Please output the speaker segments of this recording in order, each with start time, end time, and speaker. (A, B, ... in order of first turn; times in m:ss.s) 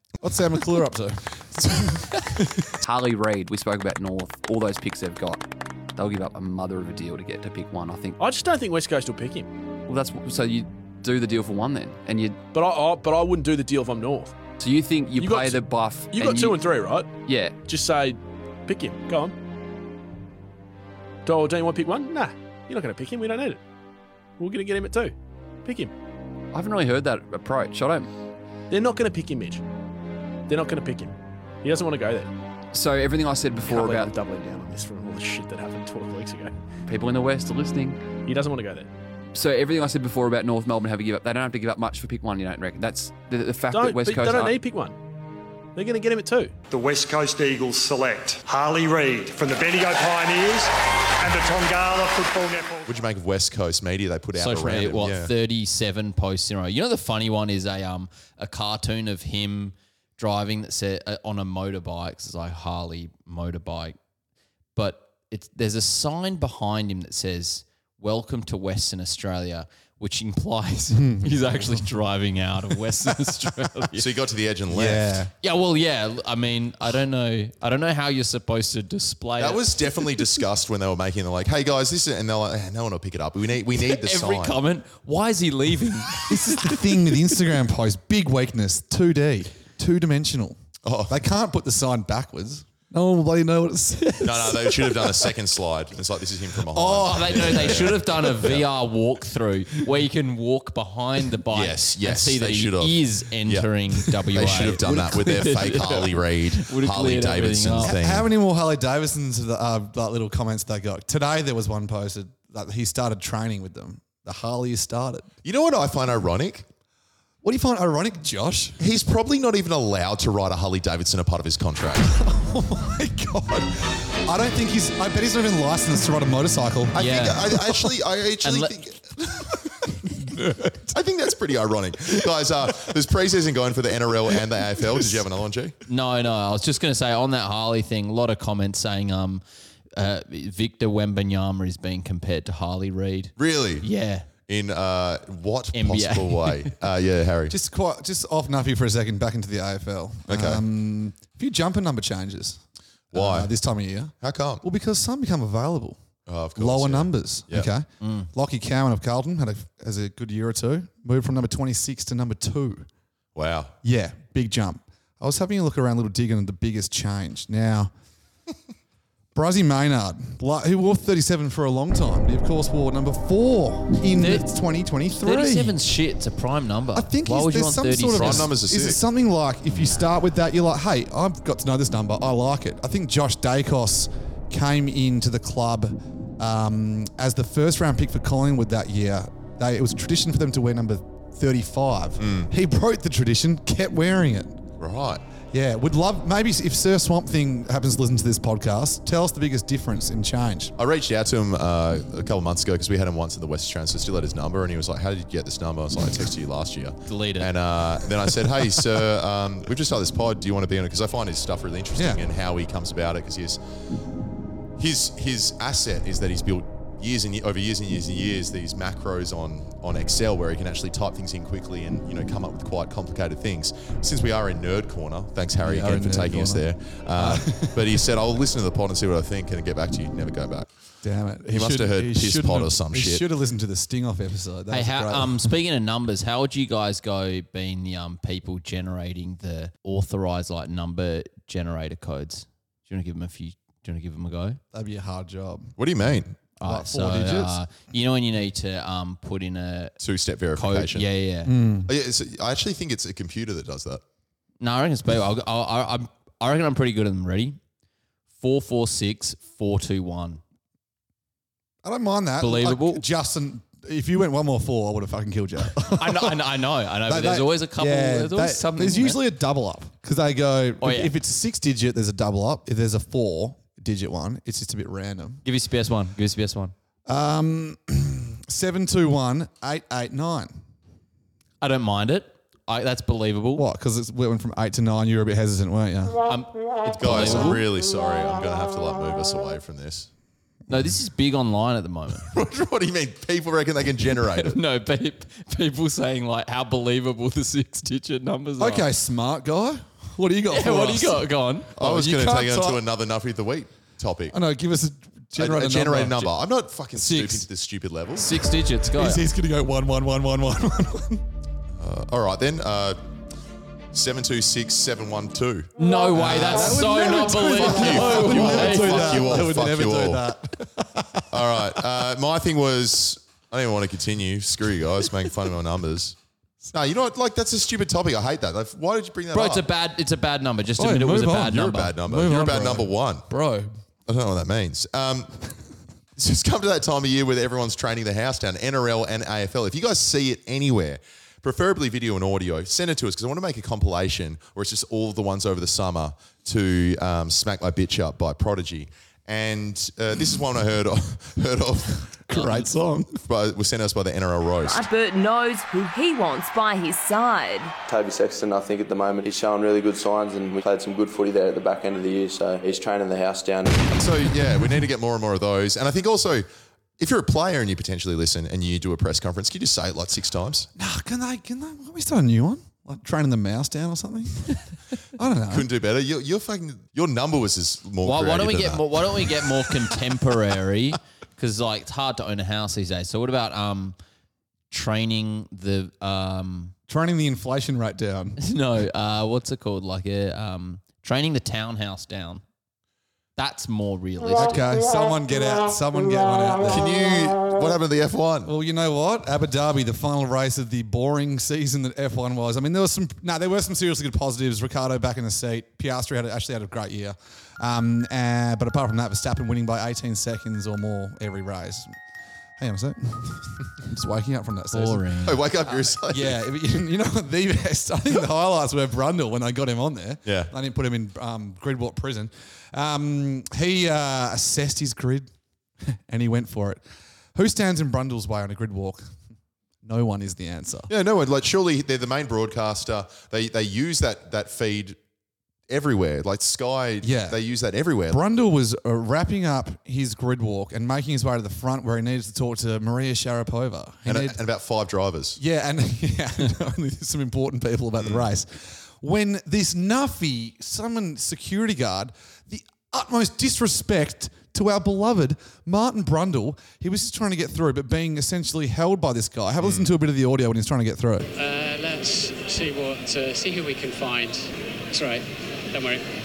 0:00.2-0:02.7 A
0:02.8-0:05.4 B
0:06.0-0:08.2 B
0:08.2-0:09.5 C
0:09.9-0:12.4 B
0:12.5-0:14.4 C
0:14.6-0:16.6 B
0:15.2-0:19.4 C
0:17.2-0:17.6 B
0:21.2-0:23.6 C
0:24.4-0:25.1 C
0:25.6-0:25.9 C
0:26.5-0:28.1 B
0:28.7-0:29.6 C
0:30.5-0:32.3 C
0:32.7-0:34.1 B
0:33.6-0:36.5 C
0:36.9-0:38.0 B
0:38.2-0:38.9 C
0:39.3-0:44.6 B
0:43.7-0:44.9 C
0:45.7-0:46.5 C
0:46.7-0:52.9 D
0:52.9-0:55.3 E
0:54.3-1:04.0 F
1:04.8-1:14.2 F
1:10.9-1:11.9 A
1:14.0-1:15.1 E
1:14.7-1:15.3 A
1:15.4-1:20.2 F
1:19.4-1:24.6 E
1:23.7-1:27.4 F
1:26.3-1:35.3 A
1:30.8-1:31.2 E
1:34.2-1:38.7 E
1:36.7-1:38.2 A
1:36.8-1:47.9 F
1:41.5-1:43.7 E
1:44.3-1:48.3 E
1:47.8-1:55.3 A
1:55.4-1:56.6 E
1:57.4-1:58.8 A
1:58.8-2:02.2 E
2:02.1-2:07.8 A
2:06.9-2:09.1 E
2:07.0-2:07.5 F
2:08.4-2:08.8 F
2:09.5-2:11.0 A
2:10.9-2:15.7 E
2:14.8-2:15.2 A
2:15.9-2:19.4 F
2:20.0-2:24.3 F
2:23.4-2:23.8 E
2:24.5-2:27.5 E
2:25.7-2:26.7 F
2:27.5-2:32.6 A
2:30.3-2:30.6 E
2:33.1-2:33.5 E
2:33.1-2:36.0 A
2:34.2-2:34.6 E
2:36.2-2:37.7 E
2:36.6-2:42.9 A
2:38.0-2:38.3 F
2:43.3-2:43.7 E
2:43.8-2:47.9 A
2:49.3-2:55.8 A
2:54.1-2:54.4 F
2:55.1-2:58.6 F
2:56.9-3:14.6 A
2:58.1-2:59.0 E
2:59.7-3:00.0 F
3:12.2-3:12.5 E
3:14.8-3:15.2 E
3:15.5-3:20.7 A
3:20.8-3:33.6 E
3:27.1-3:27.5 F
3:32.0-3:32.2 A
3:34.8-3:50.7 E
3:45.6-3:48.0 A
3:51.0-3:55.5 A
3:51.5-3:53.2 E
3:54.7-4:04.6 F
4:04.7-4:05.8 A
4:05.8-4:06.4 E
4:06.6-4:10.0 F
4:06.6-4:07.6 A
4:10.0-4:11.0 E
4:10.5-4:11.5 F
4:11.4-4:11.9 A
4:11.9-4:14.0 E
4:14.6-4:17.6 F
4:18.4-4:20.4 F
4:21.8-4:26.4 A
4:22.4-4:23.0 F
4:25.9-4:29.2 F
4:27.0-4:35.4 A
4:30.8-4:31.1 F
4:35.4-4:36.7 F
4:37.0-4:40.5 A
4:41.6-4:43.6 F
4:43.5-4:46.2 A
4:46.3-4:47.6 F
4:47.0-4:50.1 E
4:47.1-4:47.6 A
4:50.7-4:52.3 F
4:52.3-4:54.5 E
4:54.2-4:58.9 F
4:58.6-5:01.3 A
5:00.5-5:02.6 F
5:01.8-5:04.4 E
5:01.8-5:02.7 A
5:04.3-5:06.3 A
5:05.4-5:08.3 E
5:06.9-5:07.4 A
5:08.2-5:09.2 F
5:08.9-5:11.2 A
5:11.8-5:13.0 E
5:13.9-5:20.2 E
5:15.8-5:19.4 F
5:16.1-5:21.8 A
5:21.3-5:26.2 E
5:26.7-5:29.6 E
5:29.3-5:32.0 F
5:30.8-5:33.7 A
5:31.5-5:33.2 E
5:34.1-5:35.3 E
5:36.2-5:52.5 E
5:52.2-5:53.2 A
5:53.2-5:54.8 E
5:54.6-5:57.7 G
5:57.9-6:03.8 H
6:03.9-6:06.5 E
6:07.0-6:10.7 E
6:10.8-6:14.6 A
6:15.2-6:15.7 A
6:15.5-6:18.8 E
6:18.0-6:24.0 F
6:24.7-6:26.7 F
6:26.9-6:28.4 A
6:28.4-6:32.4 F
6:33.4-6:34.6 F
6:34.3-6:36.8 A
6:36.6-6:38.5 E
6:38.4-6:51.9 A
6:52.6-6:55.1 A
6:54.7-6:55.4 F
6:55.2-6:56.4 E
6:55.7-7:05.3 A
7:00.2-7:00.5 E
7:05.8-7:06.8 A
7:07.3-7:09.0 A
7:09.8-7:10.9 A
7:10.9-7:15.0 E
7:15.7-7:18.2 E
7:17.0-7:17.4 A
7:18.1-7:24.4 A
7:24.0-7:25.4 E
7:25.4-7:41.3 A
7:28.0-7:28.3 E
7:39.6-7:39.9 E
7:41.4-7:46.0 I